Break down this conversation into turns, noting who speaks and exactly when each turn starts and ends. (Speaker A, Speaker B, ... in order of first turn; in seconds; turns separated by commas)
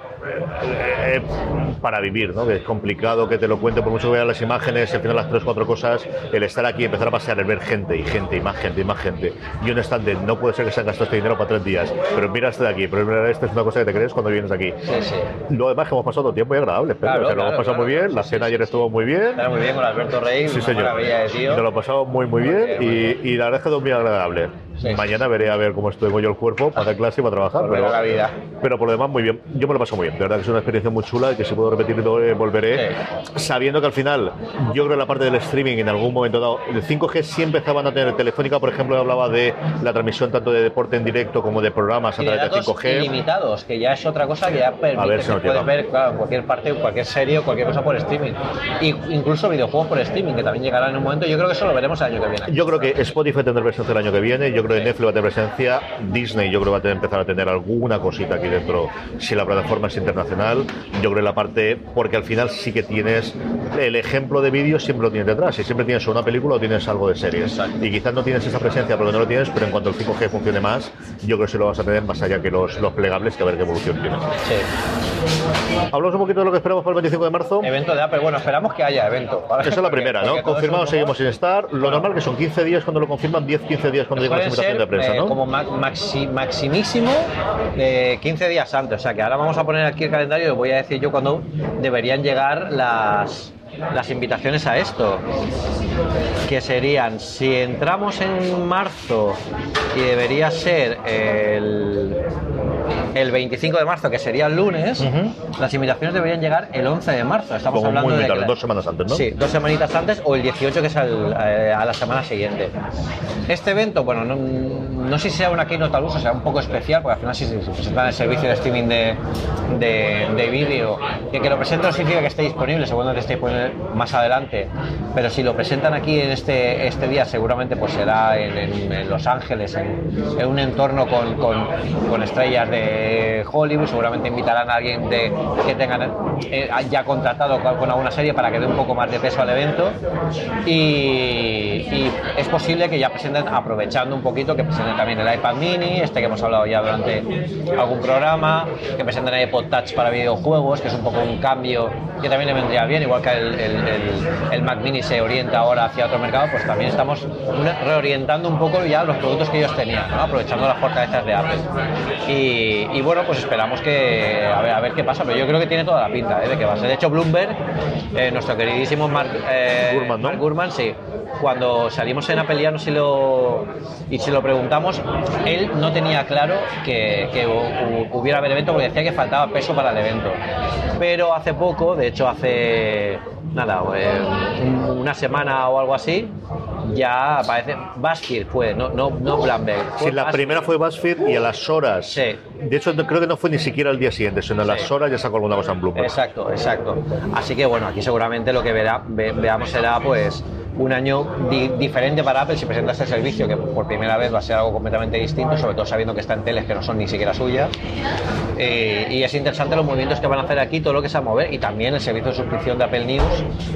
Speaker A: 0.3-14.8, Speaker B: 14.8-15.3, Speaker A: 15.5-19.5, Speaker B: 17.0-21.7, Speaker A: 20.4-28.0, Speaker B: 22.4-23.2, Speaker B: 24.8-25.1, Speaker B: 27.6-28.4, Speaker A: 28.6-43.1, Speaker B: 42.2-53.0, Speaker A: 45.0-45.7, Speaker A: 52.5-74.3, Speaker B: 67.3-67.8, Speaker B: 74.4-74.7, Speaker A: 75.9-77.7, Speaker B: 77.6-81.2, Speaker A: 79.6-85.3, Speaker B: 84.1-95.2, Speaker B: 96.5-99.4, Speaker B: 99.9-102.2, Speaker B: 103.1-108.5, Speaker A: 105.0-105.3, Speaker A: 107.7-109.2, Speaker B: 109.1-112.8, Speaker B: 113.5-140.0, Speaker B: 140.6-161.7, Speaker B: 162.3-167.6, Speaker B: 168.1-180.4, Speaker A: 169.8-170.4, Speaker B: 181.0-190.7, Speaker A: 190.0-196.2, Speaker B: 192.1-192.4, Speaker B: 194.6-194.9, Speaker B: 195.9-207.7, Speaker B: 208.6-213.5